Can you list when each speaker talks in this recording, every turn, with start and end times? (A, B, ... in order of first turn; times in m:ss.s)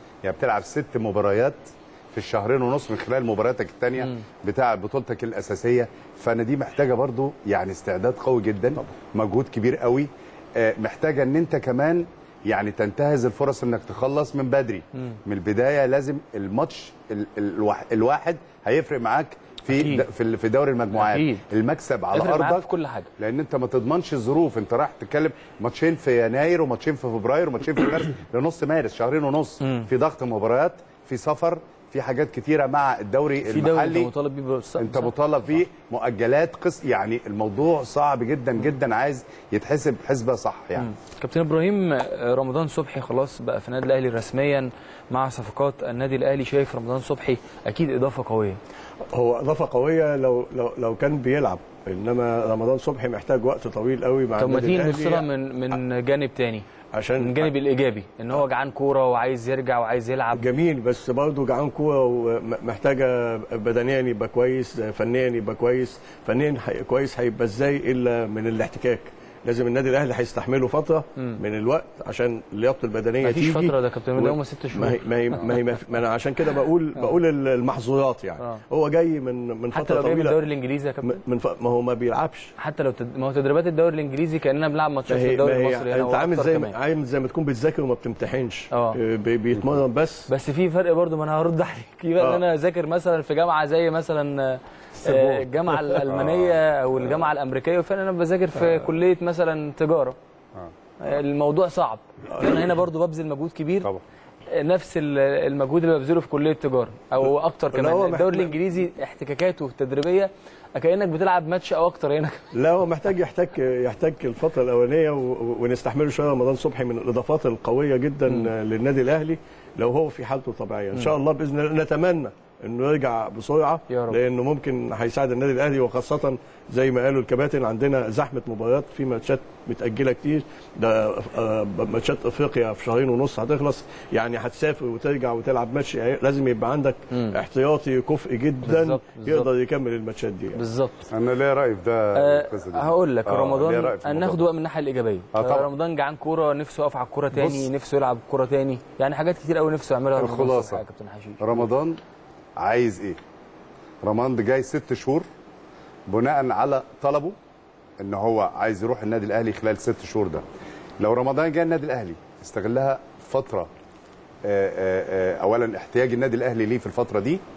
0:00.2-0:22.7 A
0:19.7-0:20.1 B
0:21.0-0:21.5 B
0:22.1-0:23.1 B
0:23.2-0:34.1 A
0:29.6-0:29.9 B
0:33.5-0:35.1 B
0:34.8-0:40.9 A
0:40.8-0:48.6 B
0:49.1-0:55.3 C
0:54.4-0:56.6 B
0:56.9-0:57.5 C
0:57.2-1:00.4 B
1:00.4-1:20.4 C
1:13.2-1:15.4 B
1:19.7-1:21.2 B
1:21.0-1:22.5 C
1:22.6-1:26.8 B
1:25.1-1:30.3 C
1:28.7-1:29.0 B
1:30.3-1:40.2 B
1:35.0-1:36.0 C
1:36.2-1:36.5 A
1:41.0-1:43.9 B
1:44.5-1:52.5 B
1:47.7-1:48.6 C
1:52.6-2:20.6 C
2:03.9-2:04.2 B
2:17.1-2:17.4 B
2:18.6-2:19.5 B
2:20.6-2:21.1 B
2:21.1-2:24.4 A
2:22.2-2:31.7 B
2:25.3-2:25.7 A
2:30.2-2:30.8 A
2:31.4-2:32.0 A
2:32.6-2:33.2 A
2:34.0-2:35.3 A
2:36.1-2:37.4 A
2:38.0-2:40.4 A
2:41.0-2:43.7 A
2:44.4-2:47.4 A